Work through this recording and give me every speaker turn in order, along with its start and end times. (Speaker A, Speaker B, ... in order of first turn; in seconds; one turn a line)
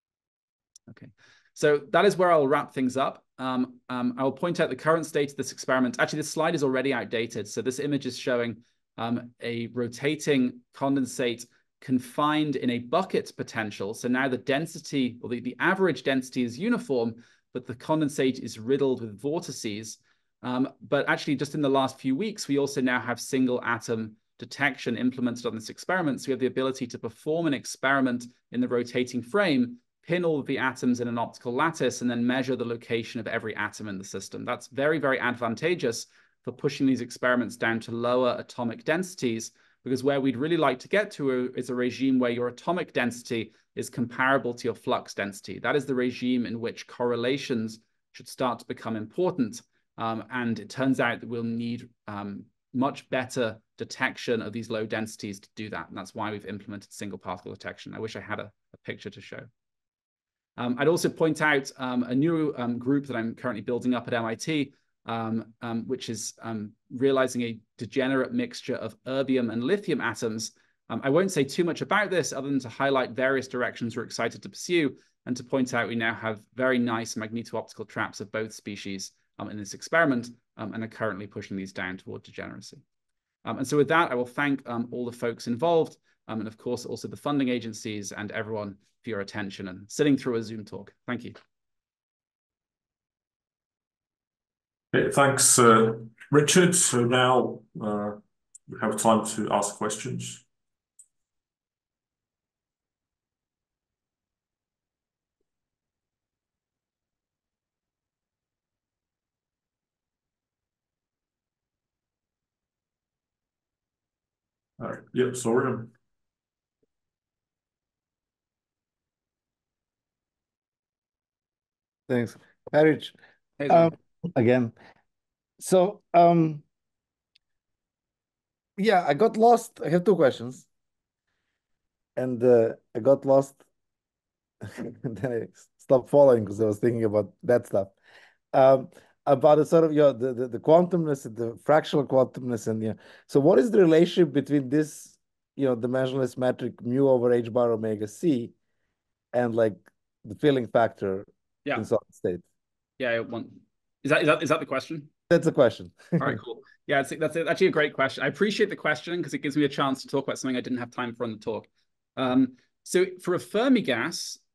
Speaker A: 0.9-59.5
Speaker A: 60.5-82.8
Speaker A: 83.4-91.3
Speaker B: 94.9-100.4
Speaker B: 114.8-115.9
Speaker C: 122.1-123.2
Speaker A: 123.6-123.9
Speaker C: 123.7-124.7
Speaker C: 125.6-126.6
Speaker C: 128.8-130.7
Speaker C: 132.2-133.6
Speaker C: 134.7-137.9
Speaker C: 138.5-148.5
Speaker C: 149.3-152.4
Speaker A: 153.0-155.1
Speaker C: 155.3-156.4
Speaker A: 156.2-164.4